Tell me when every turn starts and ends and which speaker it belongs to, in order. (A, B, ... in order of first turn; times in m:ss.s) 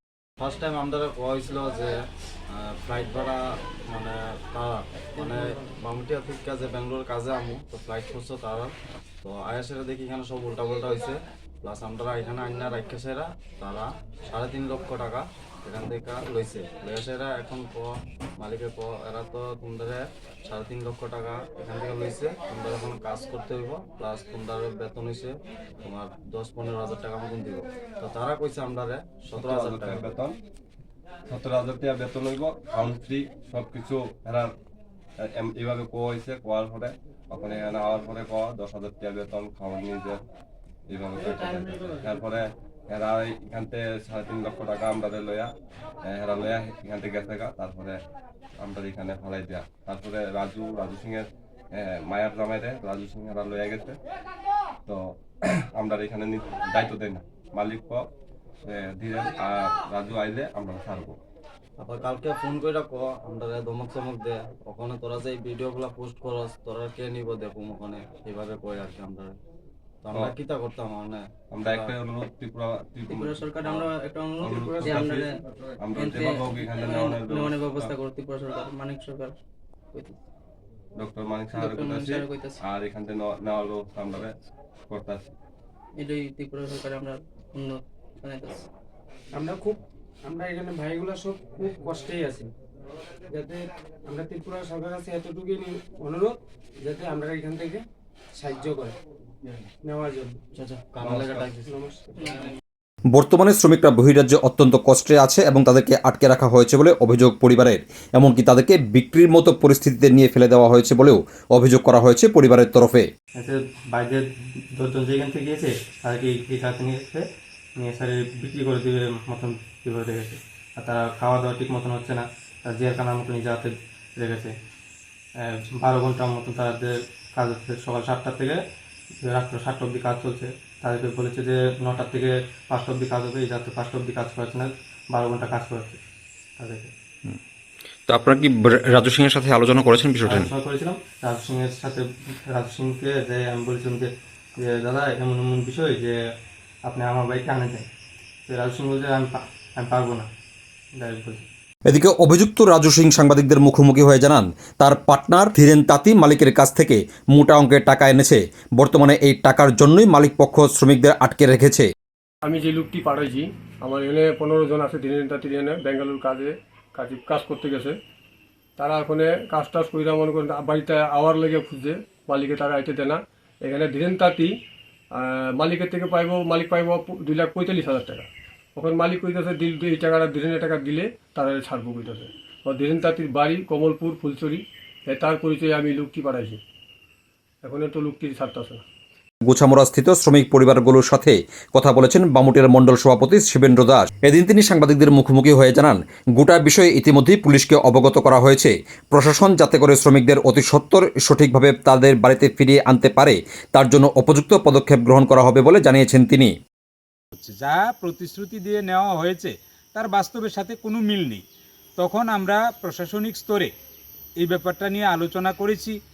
0:00.4-0:01.9 A
0:02.5-0:08.7 A
0:09.2-0:30.1 A
0:29.4-0:30.3 B
0:31.3-0:34.5 B
0:35.2-0:40.2 B
0:40.9-0:45.5 B
0:46.0-0:48.0 B
0:48.6-0:54.0 B
0:54.8-0:58.0 B
0:58.6-1:01.2 B
1:01.8-1:09.3 A
1:10.0-1:11.9 A
1:11.5-1:13.9 B
1:13.1-1:15.3 C
1:14.4-1:17.9 B
1:15.9-1:19.4 C
1:19.9-1:20.2 C
1:21.0-1:24.3 B
1:21.5-1:22.6 C
1:24.9-1:25.3 B
1:26.0-1:28.6 C
1:29.3-1:32.5 D
1:33.3-1:37.8 D
1:38.3-1:38.9 D
1:39.8-1:40.4 D
1:40.5-1:41.8 A
1:41.0-1:41.5 B
1:41.7-1:42.1 D
1:43.1-1:53.0 E
1:53.4-1:57.2 F
1:57.8-2:04.5 F
2:05.4-2:08.6 F
2:09.2-2:16.0 F
2:16.6-2:16.9 F
2:18.1-2:20.5 E
2:20.2-2:26.2 F
2:26.8-2:27.8 F
2:28.5-2:30.3 F
2:31.0-2:31.4 F
2:31.9-2:41.8 E
2:42.4-2:48.0 G
2:48.8-2:54.5 G
2:55.1-3:06.6 G
3:07.6-3:08.8 G
3:09.4-3:26.5 E
3:27.3-3:31.4 H
3:32.0-3:33.7 H
3:34.4-3:36.0 H